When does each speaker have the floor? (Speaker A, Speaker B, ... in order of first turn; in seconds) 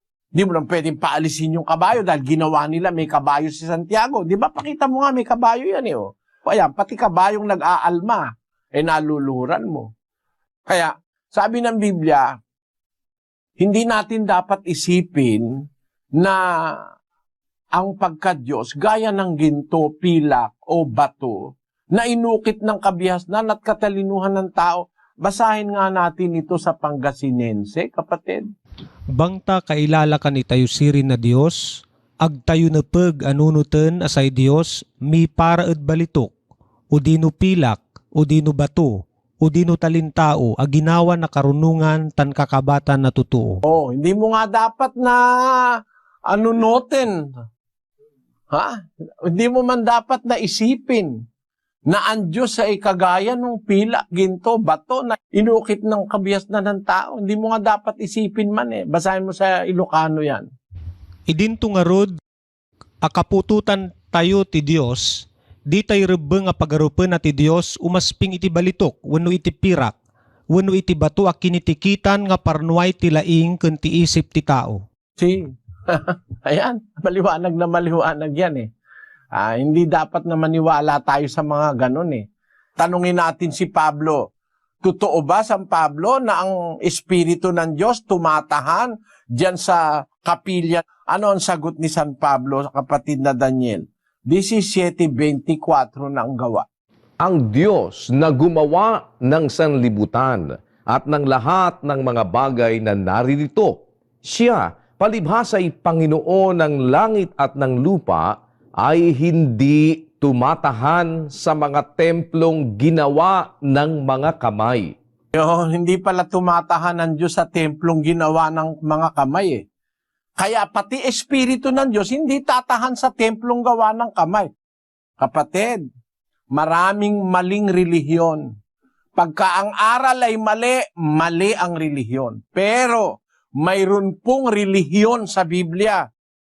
Speaker A: 0.3-9.9, 10.7-12.3, 13.6-15.5, 17.8-28.5, 43.6-47.2, 48.5-51.1, 51.9-60.5, 75.2-78.7, 79.3-82.2, 82.8-84.2, 84.8-96.6, 115.3-119.6, 120.4-124.5, 125.2-125.8, 126.5-128.4, 129.2-136.0
Speaker B: 29.1-36.3, 36.9-43.6, 61.3-62.2, 63.0-70.0, 70.5-74.8
Speaker C: 97.2-115.0